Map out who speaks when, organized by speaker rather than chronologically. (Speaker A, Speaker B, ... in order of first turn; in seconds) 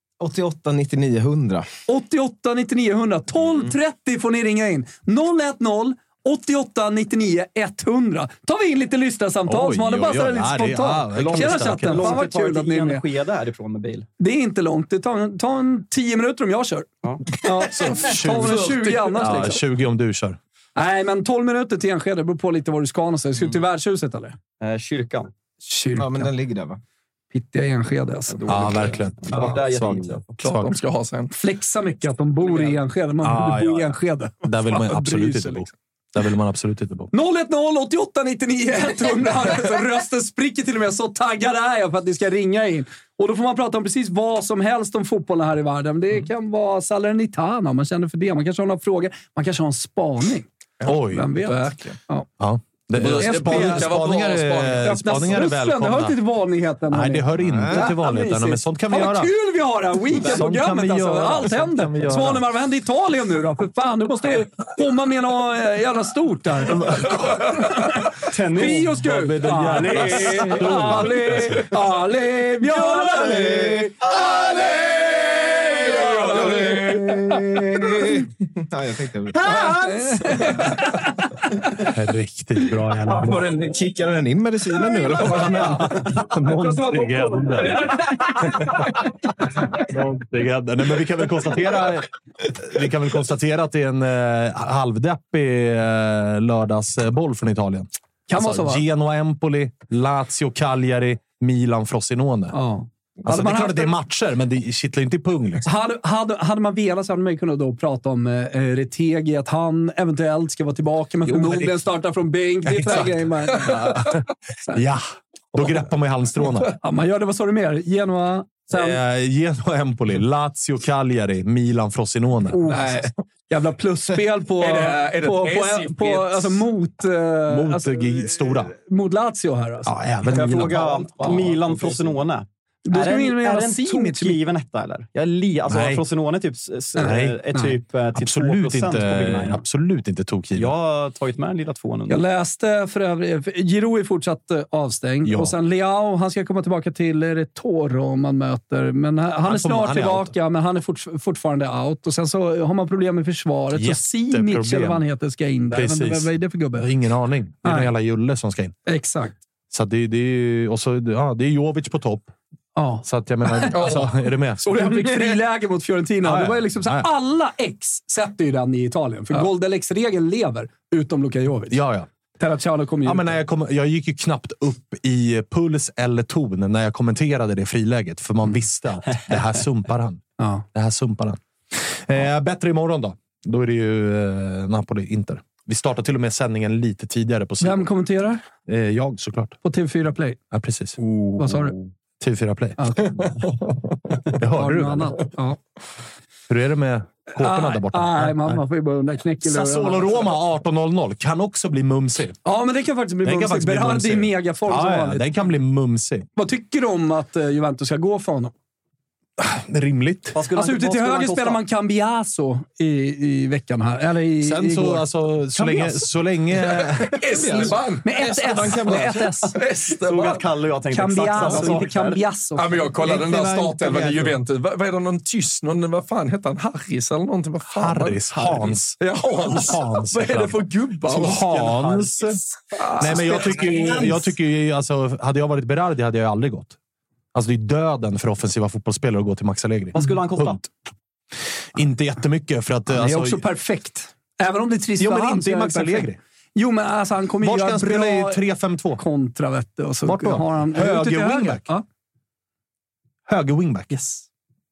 Speaker A: 0.2-1.7, 25.9-26.8, 57.4-57.9, 73.1-80.0, 83.1-87.1, 217.3-217.8
Speaker B: 1.9-13.0, 14.2-19.6, 20.8-24.4, 25.6-26.3, 27.3-28.6, 31.4-35.7, 37.1-50.5, 51.1-52.3, 53.2-53.9, 54.8-73.9, 75.6-76.8, 79.4-81.2, 86.5-88.0, 98.3-98.8, 102.5-103.9, 105.6-114.1, 116.8-119.0, 122.5-129.9, 132.8-134.4, 136.9-137.8, 142.1-156.9, 157.6-157.9, 158.8-159.3, 162.8-163.9, 164.6-171.8, 172.4-173.4, 180.4-180.6, 187.6-188.4, 189.6-190.4, 191.4-191.7, 192.8-193.1, 194.5-195.6, 197.3-200.3, 202.4-205.3, 206.3-208.5, 210.5-216.1, 218.0-219.6, 220.9-222.9, 242.9-248.4, 248.9-251.8, 253.9-254.2
Speaker C: 9.5-12.2, 17.7-20.4, 28.5-30.7, 33.2-37.1, 50.8-51.3, 52.4-56.1, 56.9-59.3, 60.1-62.5, 66.8-67.5, 68.6-71.6, 81.8-83.5, 85.7-88.7, 89.6-102.6, 103.2-105.7, 111.3-111.7, 112.6-116.7, 118.7-122.7, 127.5-128.7, 129.8-131.7, 135.7-136.0, 137.0-137.4, 138.1-140.7, 145.2-145.5, 149.4-150.3, 153.7-155.0, 155.7-158.7, 159.7-162.3, 163.0-164.9, 166.2-167.1, 171.7-172.1, 173.0-180.2, 180.7-187.9, 188.7-189.6, 190.5-191.0, 192.2-193.3, 194.4-195.2, 196.5-198.6, 199.4-202.4, 203.2-206.3, 209.4-210.4, 214.4-217.7, 223.0-224.2, 227.7-232.4, 233.0-236.8, 237.3-240.7, 241.7-243.4, 245.0-246.2, 247.4-249.0, 250.0-251.7, 253.3-253.9
Speaker D: 11.2-14.1, 24.6-25.3, 28.3-30.3, 68.2-69.0, 69.7-70.8, 73.2-73.5, 130.3-139.6, 140.5-142.2, 191.0-191.7, 210.3-211.6, 218.9-222.2, 223.9-224.3, 231.5-232.1, 239.9-240.6
Speaker E: 17.8-19.3, 30.4-31.3, 50.8-52.0, 52.9-55.0, 75.9-76.5, 122.7-123.1, 124.5-126.6, 163.7-164.1, 216.7-220.4, 222.6-231.5, 232.8-233.7